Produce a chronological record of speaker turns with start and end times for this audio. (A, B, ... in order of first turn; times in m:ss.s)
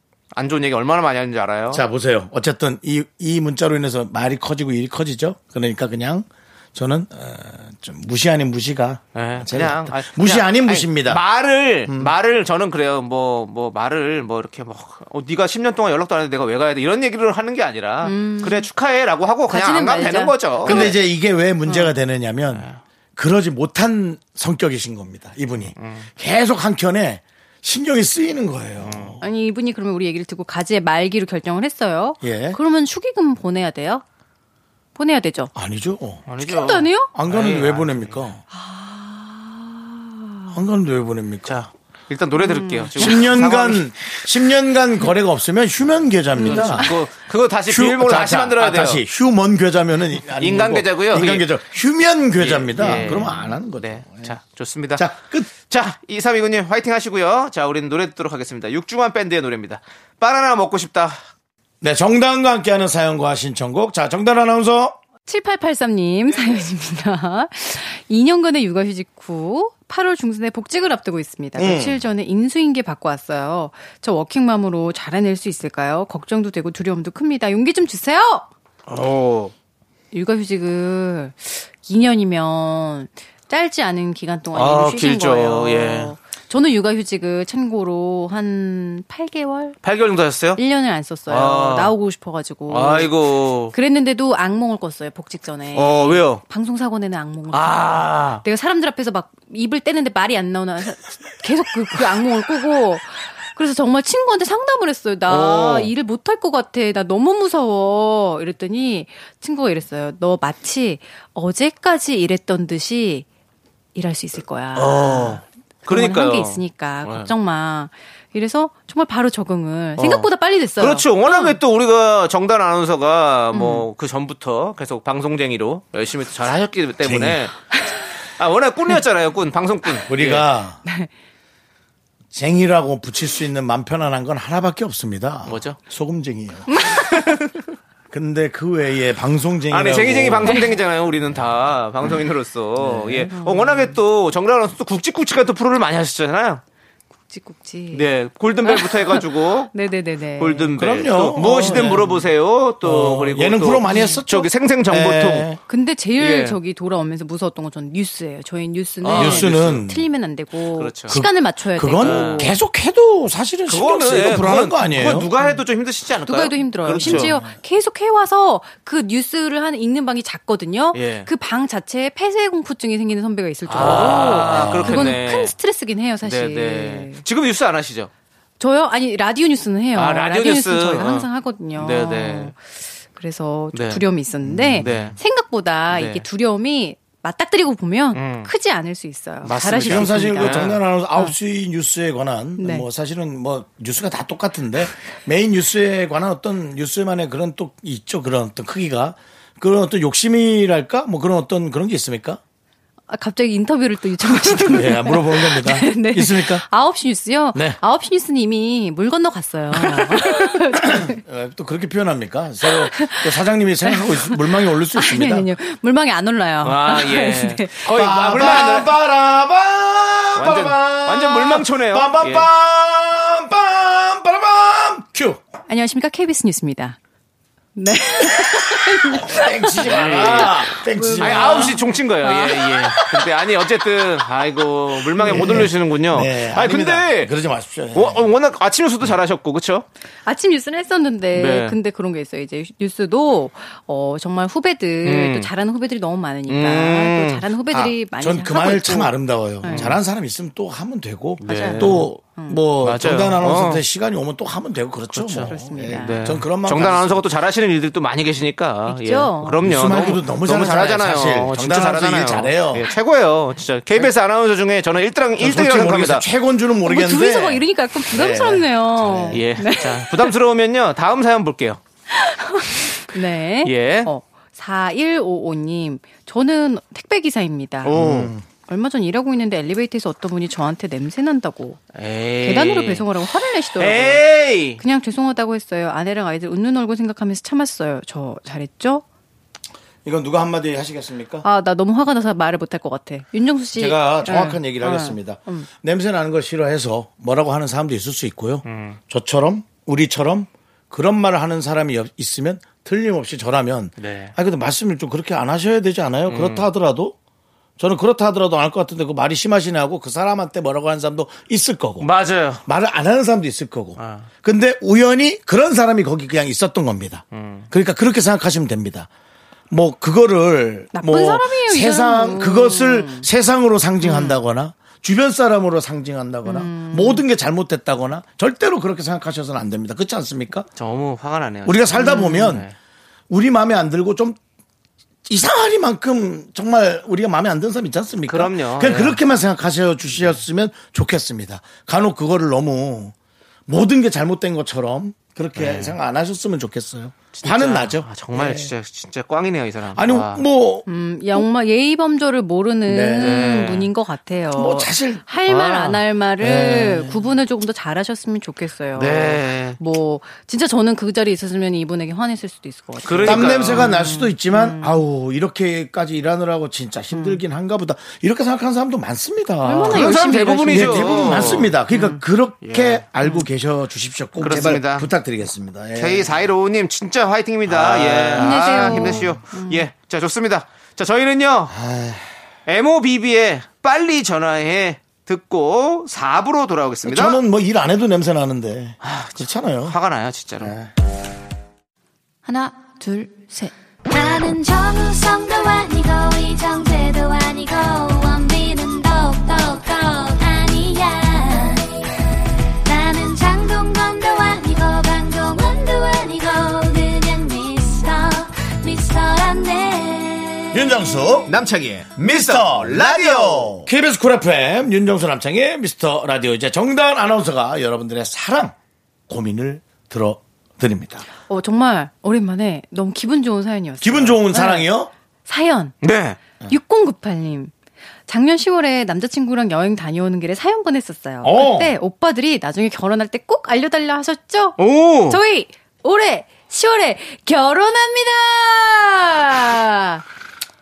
0:00.3-0:01.8 A
0:01.7-0:11.2 B
0:09.1-0:21.0 A
0:11.9-0:12.1 B
0:18.0-0:18.7 C
0:19.5-0:21.0 C
0:20.6-0:29.2 B
0:22.6-0:22.8 A
0:25.8-0:26.0 A
0:28.8-0:29.2 A
0:29.2-0:34.0 C
0:32.2-0:32.6 B
0:35.0-0:35.5 C
0:35.5-0:36.3 B
0:36.3-0:38.2 A
0:36.4-0:37.1 C
0:37.1-0:38.4 B
0:38.5-0:40.6 C
0:40.5-0:41.6 B
0:41.4-0:43.9 A
0:42.4-0:43.3 C
0:43.0-0:46.9 B
0:46.4-0:49.0 A
0:46.4-0:46.9 C
0:47.7-0:54.4 B
0:50.4-0:51.5 A
0:52.4-1:01.2 A
0:55.0-0:55.5 B
1:01.8-1:05.0 B
1:05.3-1:18.5 C
1:11.6-1:12.0 B
1:18.9-1:19.5 A
1:20.1-1:29.8 C
1:24.5-1:26.1 A
1:29.8-1:30.6 A
1:30.6-1:33.2 C
1:31.3-1:31.9 A
1:32.7-1:33.7 A
1:33.7-1:53.3 C
1:35.7-1:36.4 A
1:37.5-1:38.4 A
1:45.3-1:45.9 A
1:53.9-2:01.6 C
1:54.7-1:57.3 A
2:00.0-2:07.5 A
2:03.5-2:03.9 C
2:07.0-2:07.5 B
2:08.4-2:10.5 A
2:10.1-2:10.8 B
2:12.3-2:17.0 B
2:15.4-2:15.8 A
2:16.8-2:17.0 C
2:16.9-2:17.6 A
2:18.1-2:20.6 B
2:19.7-2:26.6 A
2:20.5-2:20.7 C
2:22.8-2:23.3 B
2:23.3-2:23.9 C
2:27.3-2:28.1 C
2:27.9-2:29.7 A
2:28.6-2:30.8 C
2:30.4-2:35.5 A
2:30.8-2:32.3 B
2:31.4-2:32.0 C
2:32.8-2:35.6 B
2:33.9-2:34.2 C
2:35.7-2:42.6 C
2:36.2-2:36.6 A
2:39.0-2:39.8 A
2:39.1-2:40.0 B
2:40.8-2:41.2 A
2:41.1-2:45.3 B
2:42.0-2:42.5 A
2:43.7-2:47.3 A
2:46.2-2:57.2 C
2:47.0-2:47.5 B
2:50.9-2:51.3 A
2:53.6-2:55.5 A
2:53.8-2:55.2 B
2:56.2-2:58.1 A
2:58.6-3:11.3 C
2:59.9-3:02.5 A
3:03.7-3:04.0 A
3:04.4-3:05.1 B
3:04.8-3:05.2 A
3:05.9-3:06.2 A
3:08.1-3:08.5 A
3:09.4-3:10.8 A
3:09.8-3:22.4 B
3:12.6-3:12.9 C
3:23.1-3:31.2 C
3:24.2-3:26.6 B
3:27.5-3:27.8 B
3:30.7-3:35.5 B
3:32.8-3:33.3 C
3:33.9-3:37.9 C
3:36.6-3:38.9 A
3:37.9-3:45.4 B
3:40.4-3:42.5 A
3:45.7-3:47.0 C
3:47.8-3:52.9 C
3:48.4-3:51.8 B
3:49.8-3:57.3 A
3:55.2-3:58.2 B
3:55.3-3:55.6 C
3:57.9-3:59.9 A
4:00.2-4:10.0 C
4:01.3-4:01.8 A
4:05.0-4:05.5 A
4:06.5-4:07.4 A
4:07.7-4:17.2 B
4:09.6-4:10.0 A
4:11.4-4:12.1 A
4:11.4-4:12.6 C
4:12.8-4:13.8 A
4:15.1-4:26.2 A
4:15.5-4:16.3 C
4:18.9-4:19.7 C
4:19.6-4:22.9 B
4:25.4-4:29.4 B
4:26.8-4:30.3 C
4:29.3-4:31.8 A
4:32.1-4:38.0 C
4:33.6-4:34.1 A
4:37.8-4:38.3 A
4:37.9-4:38.4 B
4:38.6-4:41.8 C
4:41.9-4:43.0 A
4:42.4-4:49.0 C
4:43.8-4:44.8 A
4:50.0-4:51.4 B
4:51.4-4:55.7 C
4:53.8-5:07.2 B
4:58.6-4:59.0 A
5:04.0-5:04.3 A
5:06.3-5:06.7 A
5:07.8-5:12.1 B
5:12.0-5:12.6 A
5:12.6-5:19.1 B
5:14.0-5:14.3 A
5:17.3-5:17.7 A
5:19.7-5:30.7 B
5:20.9-5:23.3 C
5:26.4-5:27.2 C
5:30.8-5:32.7 A
5:31.6-5:32.6 B
5:32.0-5:32.5 C
5:33.3-5:34.4 B
5:35.3-5:43.1 B
5:38.3-5:39.2 A
5:43.7-5:48.7 B
5:45.6-5:45.9 A
5:47.3-5:50.4 A
5:49.9-5:51.4 B
5:50.9-6:05.0 C
5:52.9-5:53.4 B
5:53.2-5:53.9 A
5:54.6-5:55.2 B
5:55.4-5:56.0 A
5:56.4-5:57.3 B
5:58.9-5:59.8 A
6:03.0-6:04.0 A
6:03.2-6:16.4 B
6:07.1-6:07.4 C
6:09.6-6:12.2 C
6:09.8-6:11.8 A
6:12.6-6:13.0 A
6:14.4-6:15.1 A
6:16.0-6:21.7 A
6:17.6-6:19.4 B
6:18.4-6:19.9 C
6:21.7-6:22.3 B
6:22.6-6:27.4 A
6:27.0-6:30.0 B
6:29.0-6:30.7 A
6:30.6-6:30.9 B
6:34.1-6:42.0 D
6:42.8-6:51.1 D
6:50.7-6:51.6 B
6:51.5-6:53.9 A
6:52.1-6:58.7 B
6:59.3-7:01.3 B
7:01.5-7:04.9 C
7:04.0-7:05.1 B
7:05.4-7:06.0 C
7:06.0-7:06.4 A
7:06.6-7:07.7 C
7:08.3-7:20.2 C
7:11.4-7:11.9 B
7:14.8-7:15.4 A